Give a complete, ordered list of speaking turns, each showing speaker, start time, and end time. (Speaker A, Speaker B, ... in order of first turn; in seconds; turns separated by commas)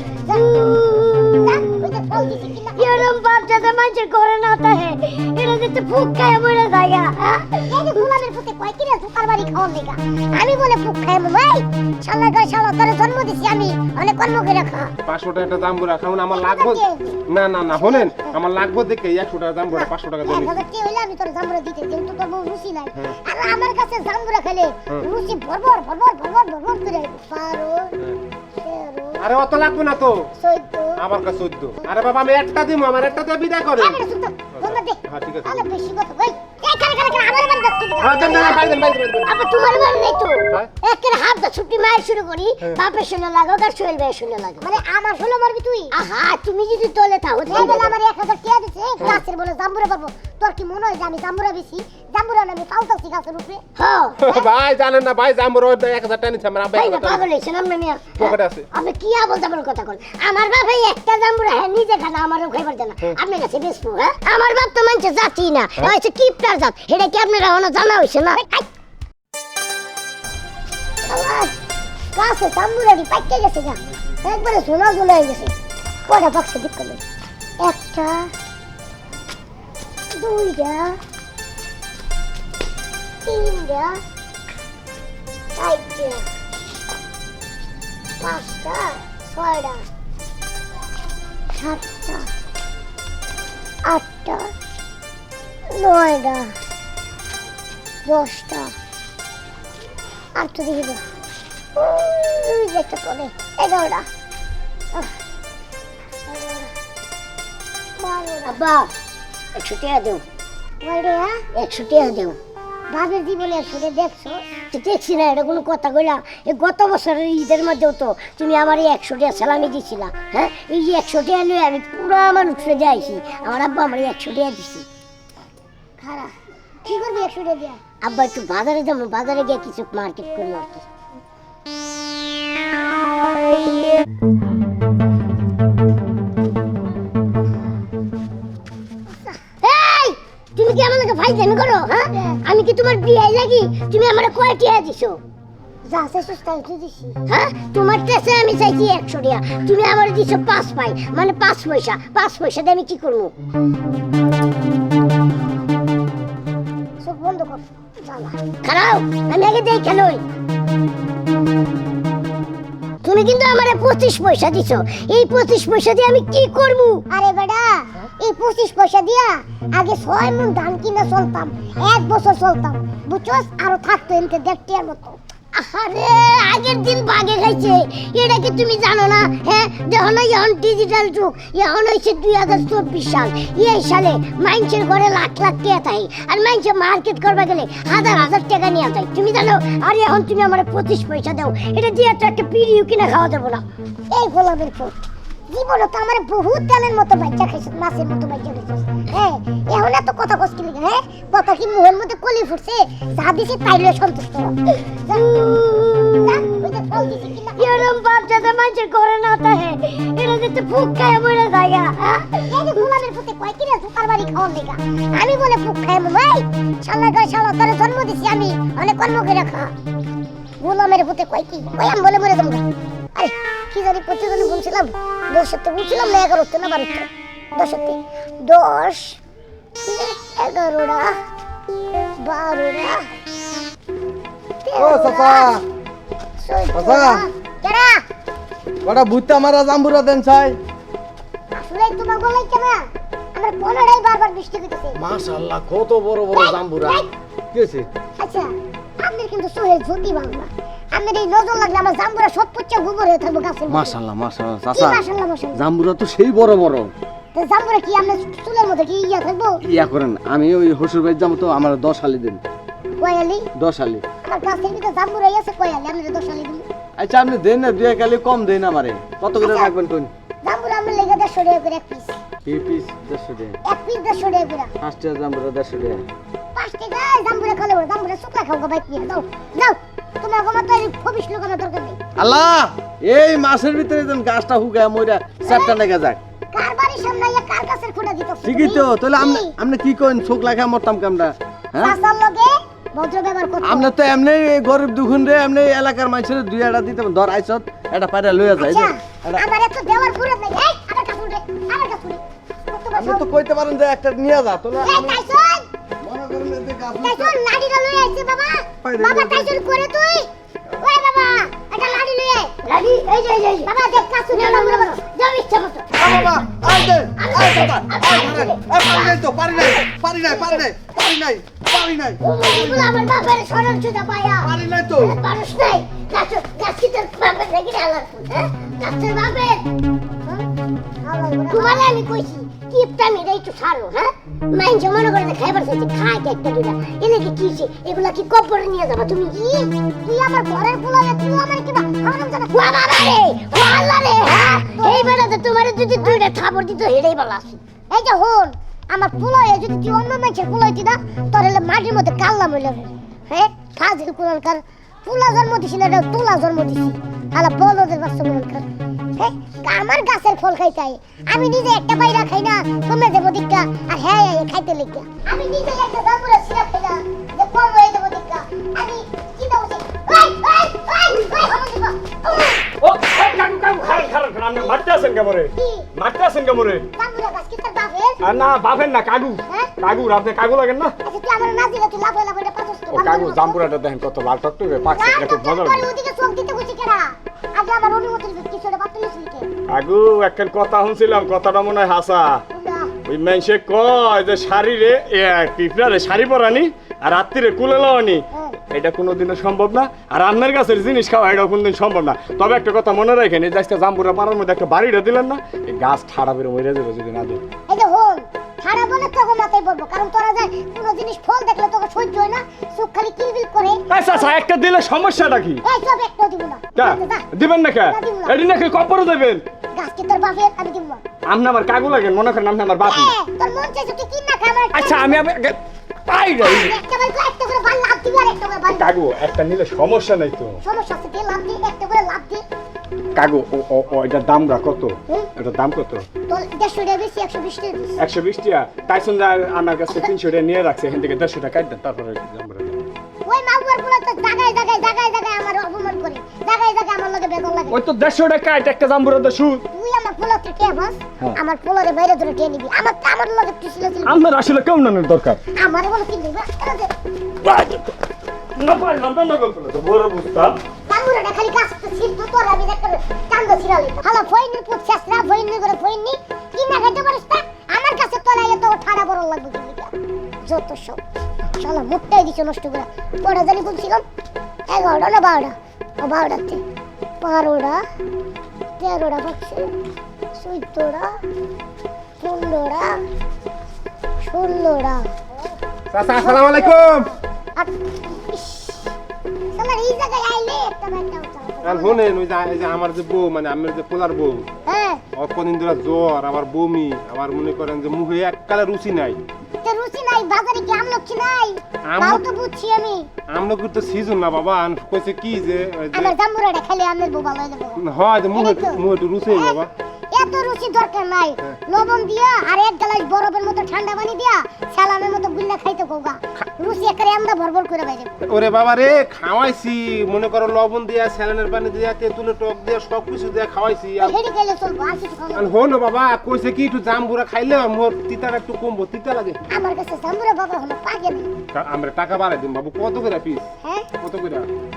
Speaker A: 0.1-7.5, Speaker B: 1.4-3.1, Speaker B: 7.6-14.9, Speaker C: 15.0-20.6, Speaker B: 16.3-18.4, Speaker B: 19.7-27.9, Speaker B: 28.6-29.3, Speaker C: 29.2-30.3, Speaker B: 30.4-31.0, Speaker C: 31.0-34.0, Speaker B: 33.8-38.9, Speaker C: 34.5-35.7, Speaker C: 38.0-39.3, Speaker A: 39.2-44.7, Speaker B: 44.6-45.9, Speaker A: 45.9-47.9, Speaker B: 47.5-53.6, Speaker C: 47.5-47.8, Speaker A: 53.8-54.2, Speaker C: 54.2-57.3, Speaker A: 56.7-68.4, Speaker C: 58.2-58.7, Speaker B: 71.0-71.5, Speaker B: 72.1-75.5, Speaker B: 76.1-77.0, Speaker B: 77.6-78.3, Speaker B: 80.2-81.0, Speaker B: 83.2-84.0, Speaker B: 85.5-86.2, Speaker B: 88.2-89.8, Speaker B: 91.5-92.3, Speaker B: 93.8-94.5, Speaker B: 95.7-96.5, Speaker B: 98.0-98.7, Speaker B: 100.3-101.0, Speaker B: 101.8-104.0, Speaker B: 106.3-106.7, Speaker B: 108.0-108.5, Speaker A: 108.4-108.9, Speaker A: 109.5-110.2, Speaker B: 110.8-111.4, Speaker A: 111.5-112.4, Speaker B: 112.9-114.4, Speaker A: 114.7-124.8, Speaker B: 126.0-126.3, Speaker B: 126.8-127.8, Speaker A: 128.0-130.8, Speaker A: 139.6-145.2, Speaker B: 145.8-147.2, Speaker A: 147.3-153.3, Speaker B: 157.0-158.4, Speaker A: 158.6-160.2, Speaker A: 163.0-167.1, Speaker B: 167.1-175.2, Speaker A: 175.5-193.6, Speaker B: 194.1-194.9, Speaker B: 195.5-204.5, Speaker A: 205.1-207.0, Speaker B: 206.2-207.9, Speaker A: 207.6-212.3, Speaker B: 212.3-219.7, Speaker B: 220.6-222.6, Speaker B: 223.2-229.2, Speaker B: 229.8-231.2, Speaker B: 232.2-233.1, Speaker B: 234.6-235.6, Speaker D: 234.8-235.6, Speaker B: 236.4-238.0, Speaker D: 236.7-237.2, Speaker D: 238.8-240.6, Speaker B: 241.5-245.0, Speaker D: 244.9-247.9, Speaker B: 246.3-247.1, Speaker B: 248.2-253.9, Speaker D: 253.7-255.0, Speaker B: 254.7-255.6, Speaker D: 255.5-256.9, Speaker B: 257.3-259.6, Speaker D: 259.6-262.4, Speaker B: 263.0-263.4, Speaker D: 263.6-264.0, Speaker B: 264.2-266.7, Speaker D: 267.0-270.1, Speaker B: 269.4-269.7, Speaker B: 270.4-272.2, Speaker D: 272.4-273.6, Speaker B: 273.6-274.7, Speaker D: 274.8-276.0, Speaker B: 276.5-282.0, Speaker D: 282.2-286.2, Speaker B: 285.4-285.8, Speaker B: 286.5-289.5, Speaker D: 288.4-292.0, Speaker B: 291.8-293.9, Speaker D: 293.6-299.4, Speaker B: 298.6-303.2, Speaker D: 302.9-305.2, Speaker B: 304.8-305.7, Speaker D: 306.0-307.4, Speaker B: 307.0-312.5, Speaker D: 308.8-309.5, Speaker A: 312.6-313.7, Speaker B: 313.6-314.9, Speaker A: 314.3-316.4, Speaker D: 316.0-322.9, Speaker A: 317.1-319.2, Speaker A: 320.3-320.6, Speaker A: 322.2-329.6, Speaker D: 324.4-325.2, Speaker B: 331.0-331.9, Speaker A: 331.5-339.7, Speaker B: 340.0-342.7, Speaker A: 342.5-347.6, Speaker B: 344.2-345.2, Speaker B: 347.9-372.2, Speaker E: 372.8-376.9, Speaker B: 375.6-375.9, Speaker B: 376.9-378.2, Speaker E: 378.2-380.9, Speaker B: 381.0-383.6, Speaker E: 382.9-385.9, Speaker B: 384.9-389.5, Speaker E: 389.7-392.4, Speaker B: 392.5-392.9, Speaker E: 393.0-407.4, Speaker B: 398.3-398.6, Speaker B: 407.7-414.4, Speaker E: 413.9-415.6, Speaker B: 415.6-417.2, Speaker E: 416.7-419.4, Speaker B: 417.8-418.4, Speaker B: 419.7-421.0, Speaker E: 421.2-423.1, Speaker B: 422.8-425.2, Speaker E: 424.7-426.7, Speaker B: 426.4-428.9, Speaker E: 428.7-430.6, Speaker B: 430.6-432.4, Speaker E: 433.1-436.1, Speaker B: 436.3-438.0, Speaker E: 438.0-442.8, Speaker B: 443.2-447.8, Speaker E: 447.7-449.6, Speaker B: 449.7-454.2, Speaker E: 454.0-455.4, Speaker B: 455.5-456.9, Speaker E: 457.4-457.9, Speaker E: 458.6-460.6, Speaker B: 460.9-469.9, Speaker B: 470.4-471.0, Speaker B: 471.6-474.0, Speaker B: 474.7-476.6, Speaker B: 477.2-477.8, Speaker B: 478.8-479.7, Speaker B: 480.3-481.1, Speaker B: 482.2-483.0, Speaker B: 484.2-485.1, Speaker C: 485.9-487.1, Speaker B: 486.1-486.9, Speaker B: 487.6-488.9, Speaker B: 489.5-492.1, Speaker C: 491.6-494.5, Speaker B: 494.7-495.0, Speaker C: 495.1-499.2, Speaker B: 499.6-503.1, Speaker C: 501.9-502.2, Speaker C: 503.3-506.1, Speaker B: 505.9-518.2, Speaker C: 507.8-509.7, Speaker C: 518.2-524.1, Speaker B: 524.0-525.6, Speaker C: 525.3-529.4, Speaker B: 529.5-531.3, Speaker C: 531.5-533.5, Speaker B: 533.6-533.9, Speaker C: 534.0-534.5